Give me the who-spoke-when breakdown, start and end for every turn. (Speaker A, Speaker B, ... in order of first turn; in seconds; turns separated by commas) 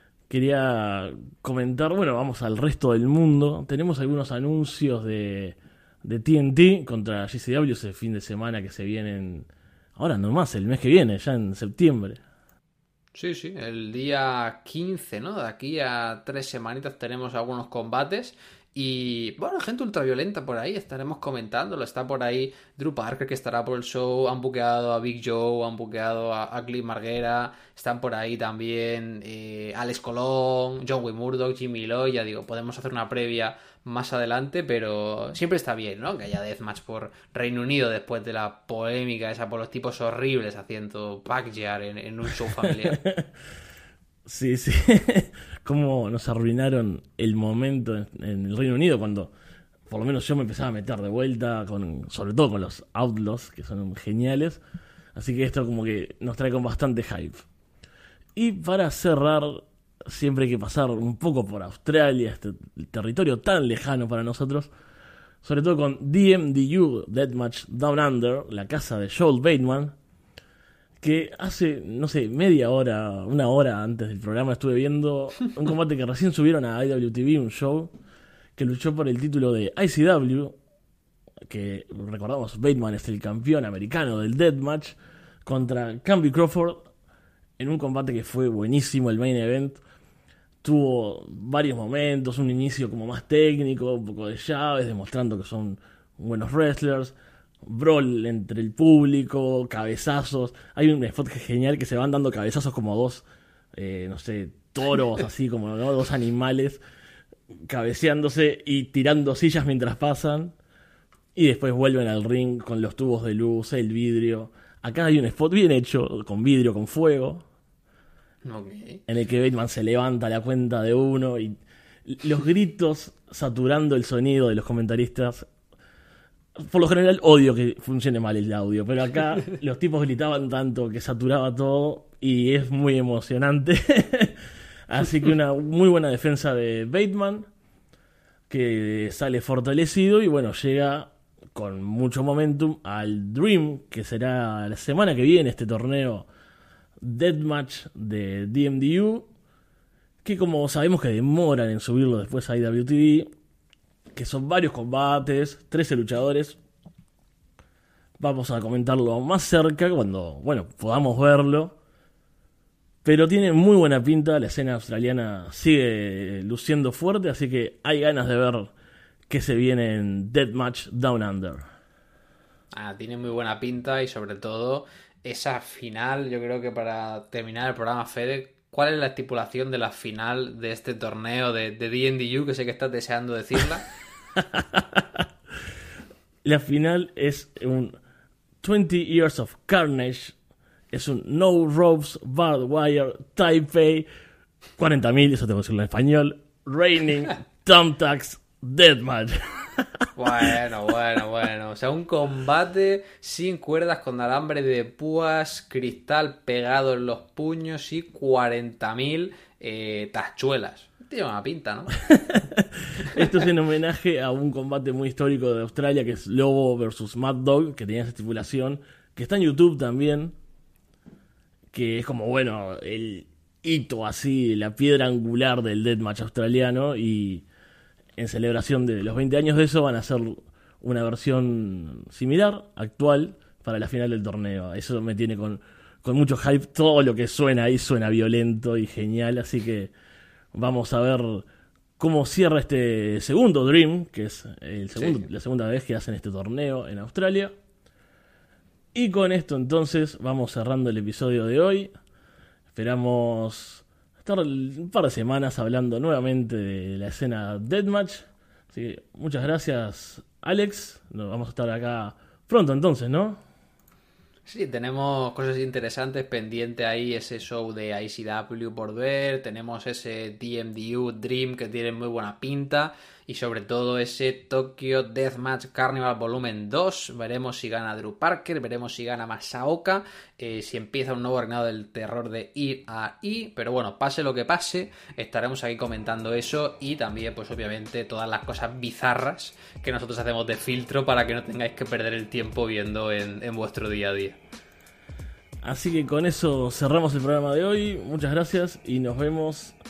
Speaker A: 0.3-12.2, Speaker B: 13.1-43.0, Speaker A: 42.7-43.3, Speaker A: 44.2-49.3, Speaker A: 49.9-54.6, Speaker A: 55.1-57.4, Speaker A: 58.4-64.7, Speaker A: 65.4-69.9, Speaker A: 71.0-77.9, Speaker A: 78.5-80.6, Speaker A: 81.4-86.9, Speaker A: 87.6-89.8, Speaker A: 90.6-106.8, Speaker A: 107.7-110.5, Speaker A: 111.3-117.4, Speaker B: 118.4-119.0, Speaker A: 119.1-125.5, Speaker A: 126.6-137.5, Speaker A: 138.5-146.3, Speaker A: 147.0-149.3, Speaker A: 150.2-153.3, Speaker A: 154.1-156.6, Speaker A: 158.2-161.8, Speaker A: 163.0-168.7, Speaker A: 169.3-171.6, Speaker B: 172.7-183.9, Speaker A: 184.4-185.3, Speaker A: 186.4-187.9, Speaker A: 188.6-190.3, Speaker A: 190.9-194.1, Speaker A: 194.8-200.6, Speaker B: 200.2-211.9, Speaker A: 212.1-220.3, Speaker A: 221.7-227.4, Speaker A: 228.2-239.9, Speaker A: 240.5-241.4, Speaker A: 242.0-247.5, Speaker B: 244.9-245.2, Speaker A: 248.9-251.9, Speaker A: 252.7-263.4, Speaker B: 264.5-294.4, Speaker A: 295.6-299.8